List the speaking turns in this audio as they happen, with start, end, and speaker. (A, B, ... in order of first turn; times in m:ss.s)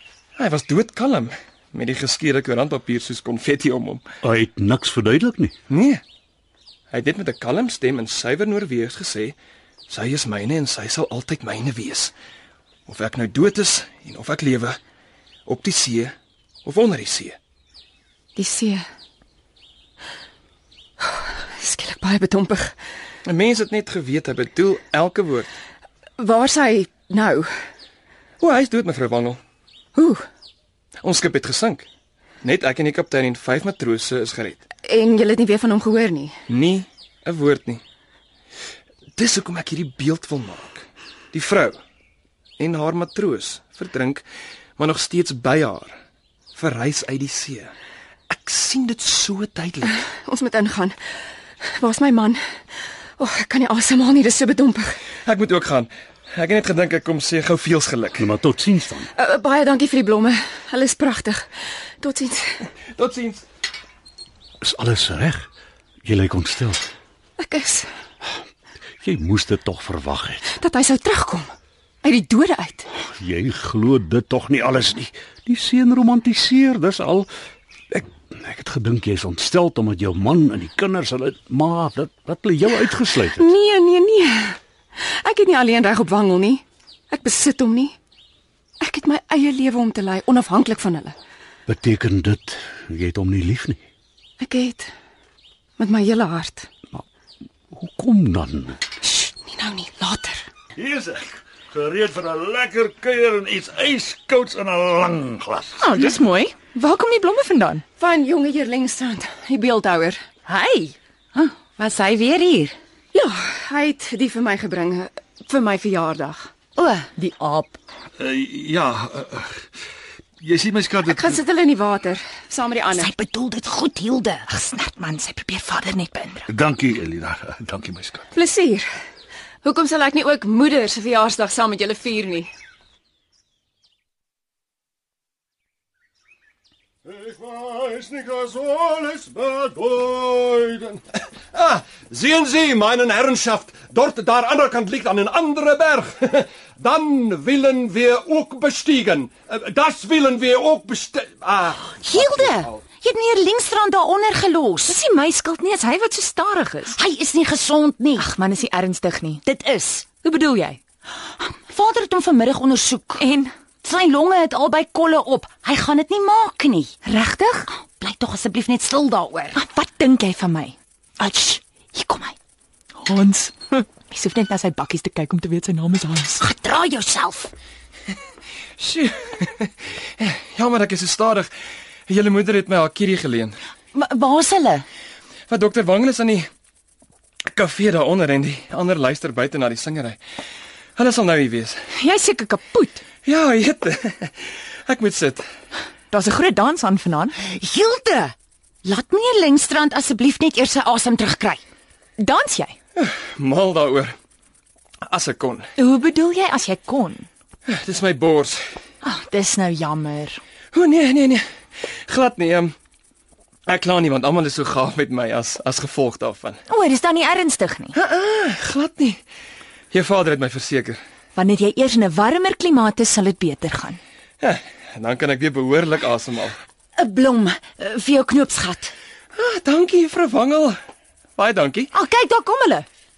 0:00.4-0:04.0 A
0:04.2-0:05.5 B
0:05.7-0:06.0 A
0:06.9-0:09.4 A
0:09.9-0:12.1 A
0:12.9-0:14.8 A
0:15.4-0:17.4 A
0:18.4-0:18.8 C
0:21.0-0:22.7 C
0:23.2-0:25.5 A
0:26.2-0:27.5 C
0:28.4-0:29.4 A
0:30.0-0:30.2 C
0:31.0-0:31.8 A
0:32.4-0:34.6 A
0:34.8-0:36.3 C
0:36.5-0:37.8 A
0:39.2-0:41.8 A
0:42.6-0:44.2 A
0:44.8-0:46.0 A
0:46.5-0:47.7 A
0:48.3-0:50.0 A
0:50.1-0:51.0 C
0:51.6-0:52.4 C
0:53.2-0:55.0 C
0:55.2-0:58.3 A
0:58.2-0:59.1 B
0:59.1-1:01.4 C
1:02.0-1:02.6 C
1:02.9-1:03.4 A
1:04.6-1:05.5 B
1:06.0-1:06.9 B
1:07.4-1:07.9 C
1:09.0-1:10.5 B
1:10.5-1:11.5 C
1:12.0-1:12.9 C
1:13.0-1:17.3 B
1:18.3-1:23.5 B
1:23.4-1:28.0 C
1:28.8-1:31.2 C
1:31.7-1:33.8 B
1:34.4-1:34.9 C
1:35.8-1:36.7 C
1:37.7-1:38.8 B
1:39.0-1:40.4 C
1:40.8-1:45.9 D
1:45.8-1:47.8 E
1:48.0-1:50.2 C
1:50.4-1:51.0 E
1:51.3-1:52.8 F
1:53.1-1:56.5 C
1:56.8-1:57.1 F
1:57.1-1:57.8 E
1:58.2-1:59.7 D
2:00.4-2:01.4 D
2:01.0-2:03.1 C
2:02.9-2:04.4 F
2:04.5-2:06.5 E
2:06.5-2:08.3 D
2:08.3-2:08.9 C
2:09.6-2:12.5 C
2:17.0-2:32.8 G
2:32.0-2:35.0 F
2:34.8-2:37.0 E
2:37.0-2:38.2 F
2:38.2-2:39.4 E
2:39.4-2:40.0 F
2:40.1-2:40.8 E
2:41.2-2:43.2 F
2:43.2-2:43.5 E
2:43.8-2:46.9 F
2:47.0-2:47.7 E
2:47.7-2:49.6 F
2:49.5-2:52.3 E
2:53.0-2:56.4 E
2:56.4-2:57.5 F
2:58.8-3:01.5 A
3:02.1-3:03.6 A
3:03.9-3:04.8 F
3:05.5-3:06.5 A
3:07.5-3:10.2 A
3:11.0-3:11.8 A
3:11.9-3:13.0 E
3:13.2-3:15.4 A
3:16.1-3:17.4 E
3:17.4-3:21.6 F
3:22.2-3:22.8 E
3:23.0-3:24.1 A
3:25.0-3:25.7 A
3:25.8-3:27.3 E
3:27.7-3:28.6 A
3:29.0-3:30.4 E
3:30.7-3:32.7 A
3:33.7-3:36.6 A
3:36.7-3:38.0 E
3:37.9-3:39.2 A
3:39.9-3:41.0 A
3:41.3-3:44.0 E
3:44.4-3:46.6 A
3:47.0-3:48.9 F
3:49.3-3:50.8 A
3:51.4-3:51.9 A
3:51.9-3:52.9 E